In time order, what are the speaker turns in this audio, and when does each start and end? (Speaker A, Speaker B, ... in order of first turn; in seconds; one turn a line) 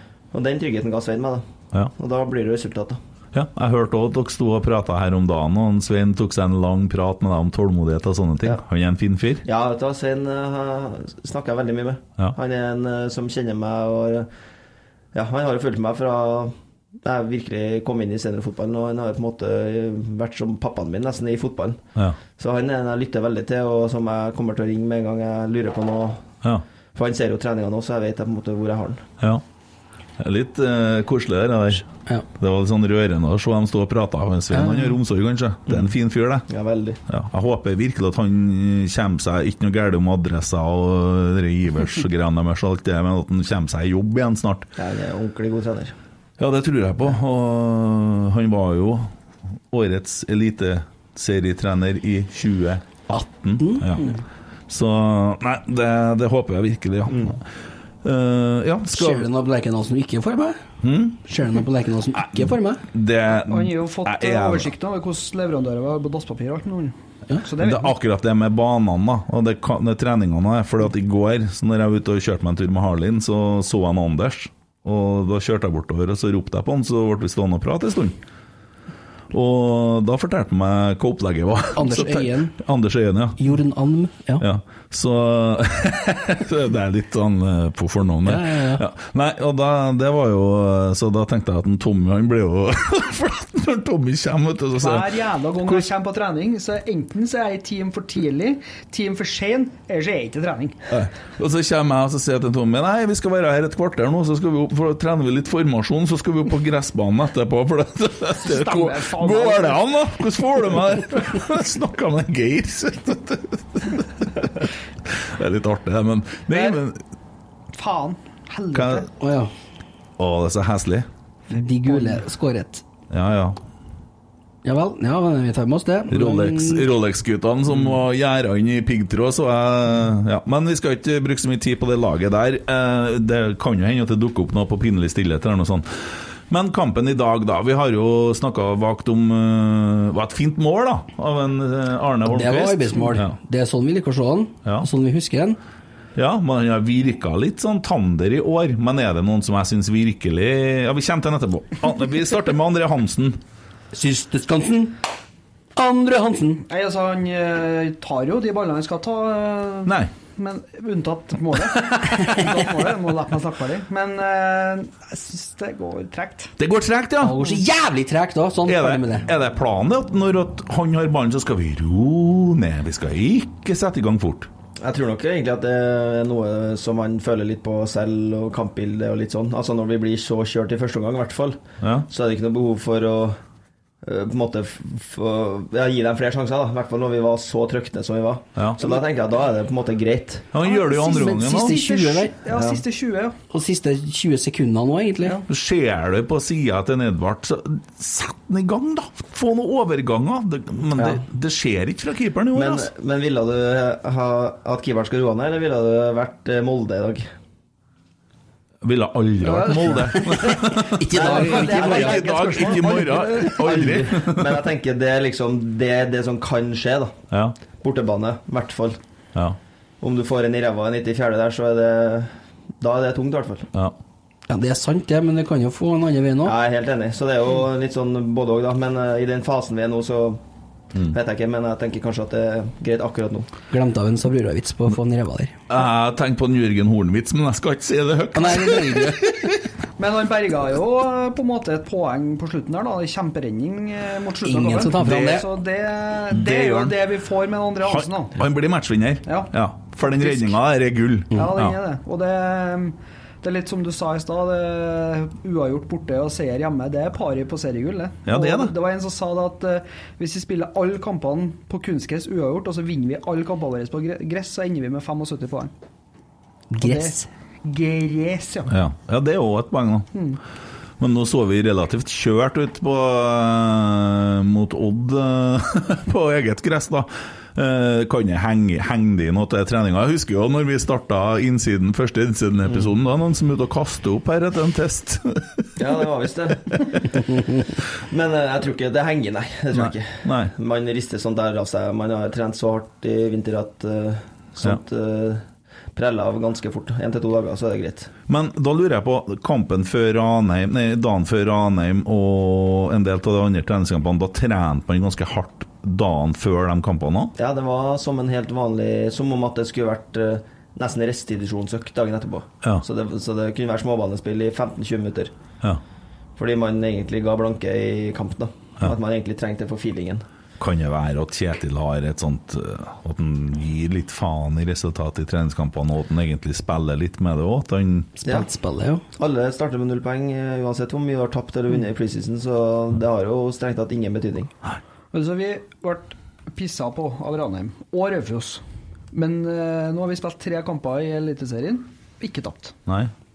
Speaker A: 0.3-3.0
Speaker B: 3.3-9.4
Speaker A: 9.4-14.3
Speaker A: 15.1-21.8
Speaker A: 22.4-26.2
Speaker A: 26.9-29.0
Speaker B: 30.2-31.9
Speaker B: 32.4-36.5
Speaker C: 34.5-35.0
Speaker A: 35.7-35.9
Speaker A: 36.5-37.0
Speaker B: 37.1-44.7
Speaker A: 44.8-46.0
Speaker B: 46.4-49.1
Speaker B: 49.7-54.1
Speaker C: 53.1-54.1
Speaker B: 54.7-57.4
Speaker A: 57.1-57.4
Speaker B: 58.0-59.3
Speaker C: 58.9-60.6
Speaker B: 60.8-61.2
Speaker C: 61.2-62.8
Speaker B: 62.2-64.7
Speaker D: 63.4-67.9
Speaker B: 67.6-78.2
Speaker B: 79.3-83.4
Speaker C: 81.8-82.6
Speaker C: 83.4-84.5
Speaker B: 84.4-95.9
Speaker C: 88.2-88.8
Speaker D: 94.8-100.8
Speaker B: 100.9-117.0
Speaker D: 108.4-109.8
Speaker D: 116.5-116.8
Speaker D: 117.7-119.1
Speaker B: 118.7-119.1
Speaker C: 119.2-119.5
Speaker B: 120.2-121.1
Speaker C: 121.5-122.8
Speaker D: 121.5-122.2
Speaker B: 123.1-123.6
Speaker C: 124.7-126.9
Speaker B: 126.1-143.3
Speaker C: 142.3-145.6
Speaker B: 146.2-153.4
Speaker C: 153.9-155.0
Speaker C: 155.8-156.6
Speaker D: 156.7-166.5
Speaker B: 159.8-160.1
Speaker B: 166.6-167.4
Speaker C: 167.2-169.3
Speaker B: 168.7-174.5
Speaker A: 174.8-183.4
Speaker B: 181.8-182.1
Speaker A: 184.0-190.5
Speaker B: 188.6-189.0
Speaker B: 190.5-191.8
Speaker D: 190.6-193.4
Speaker C: 190.9-192.4
Speaker A: 192.5-192.8
Speaker C: 193.5-195.4
Speaker B: 195.5-202.9
Speaker A: 201.0-201.2
Speaker A: 202.5-207.3
Speaker B: 208.8-214.6
Speaker D: 209.4-210.6
Speaker C: 210.2-212.2
Speaker A: 211.1-217.2
Speaker D: 211.2-213.7
Speaker B: 217.3-217.6
Speaker A: 217.8-219.0
Speaker A: 220.0-223.7
Speaker C: 224.5-226.6
Speaker A: 226.4-230.4
Speaker A: 231.1-233.5
Speaker C: 233.7-235.5
Speaker B: 235.7-239.2
Speaker C: 238.3-239.5
Speaker D: 240.0-248.4
Speaker C: 244.4-245.5
Speaker B: 245.0-245.4
Speaker B: 246.3-247.0
Speaker B: 247.8-251.8
Speaker D: 249.3-250.6
Speaker D: 251.3-265.7
Speaker B: 258.3-258.7
Speaker C: 266.7-267.3
Speaker D: 266.8-268.7
Speaker B: 268.7-270.1
Speaker D: 270.1-270.4
Speaker B: 271.0-285.9
Speaker A: 285.8-298.1
Speaker B: 289.7-290.5
Speaker B: 298.3-307.3
Speaker A: 307.4-315.3
Speaker A: 316.4-320.2
Speaker B: 320.6-328.2
Speaker C: 328.2-329.0
Speaker A: 329.2-334.5
Speaker D: 335.1-342.8
Speaker B: 342.9-343.1